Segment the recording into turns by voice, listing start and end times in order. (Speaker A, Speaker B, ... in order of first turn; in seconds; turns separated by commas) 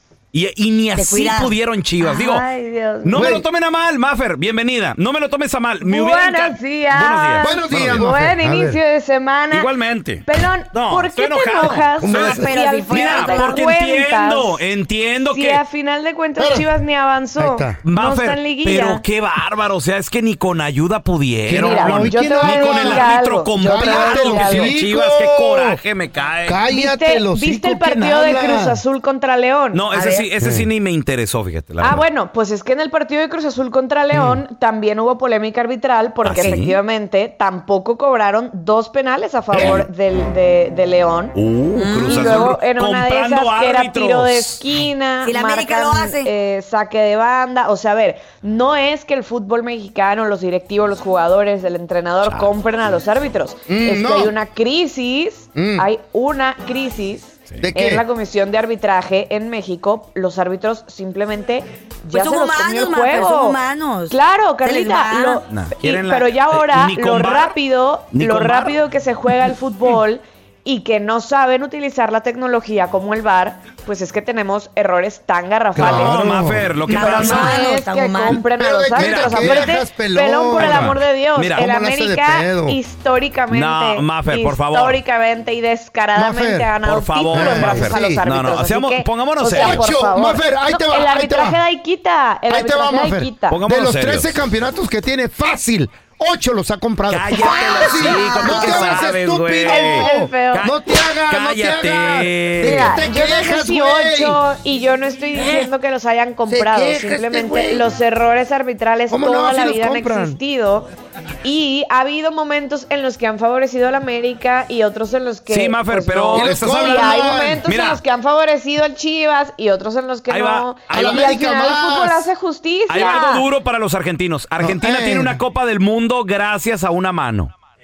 Speaker A: 0.3-2.5, Speaker B: 0.9-1.5, Speaker C: 2.1-3.3, Speaker A: 3.0-8.0, Speaker D: 3.1-3.5, Speaker C: 5.8-9.7, Speaker D: 7.4-8.8, Speaker A: 9.5-15.6, Speaker C: 10.3-14.6, Speaker D: 12.0-12.5, Speaker B: 12.1-13.5, Speaker C: 15.3-19.0, Speaker D: 16.4-16.7, Speaker D: 17.4-17.8, Speaker A: 17.9-26.6, Speaker D: 21.5-25.8, Speaker C: 21.5-24.7, Speaker D: 26.5-28.8, Speaker C: 26.7-29.9, Speaker A: 29.7-32.0, Speaker B: 29.9-30.3, Speaker D: 30.4-30.7, Speaker C: 31.8-41.4, Speaker D: 34.1-34.4, Speaker A: 36.2-36.8, Speaker A: 39.5-39.8, Speaker A: 41.4-44.6, Speaker B: 41.8-42.5, Speaker C: 42.0-63.6, Speaker B: 45.2-46.3, Speaker D: 53.7-54.3, Speaker D: 55.5-55.9, Speaker D: 57.6-58.0, Speaker B: 62.1-65.4, Speaker C: 64.1-76.2, Speaker A: 65.5-67.5, Speaker A: 68.1-68.8, Speaker D: 75.8-77.3, Speaker A: 75.8-77.7, Speaker B: 76.9-78.4, Speaker C: 76.9-93.6, Speaker D: 78.5-81.0, Speaker A: 79.0-79.7, Speaker A: 80.6-81.6, Speaker D: 81.5-82.8, Speaker A: 83.5-85.0, Speaker D: 86.2-86.7, Speaker A: 86.8-89.8, Speaker D: 87.3-88.2, Speaker D: 89.5-91.6, Speaker D: 92.5-104.4, Speaker A: 93.5-94.3, Speaker A: 97.1-100.8, Speaker C: 97.7-99.0, Speaker C: 99.7-100.7, Speaker A: 101.3-103.0, Speaker C: 102.6-110.9, Speaker D: 106.5-107.8, Speaker D: 109.1-110.4, Speaker C: 111.4-123.5, Speaker A: 115.5-118.0, Speaker D: 116.3-117.6, Speaker A: 120.3-121.3, Speaker D: 120.9-122.3, Speaker A: 122.9-127.5, Speaker D: 124.6-125.4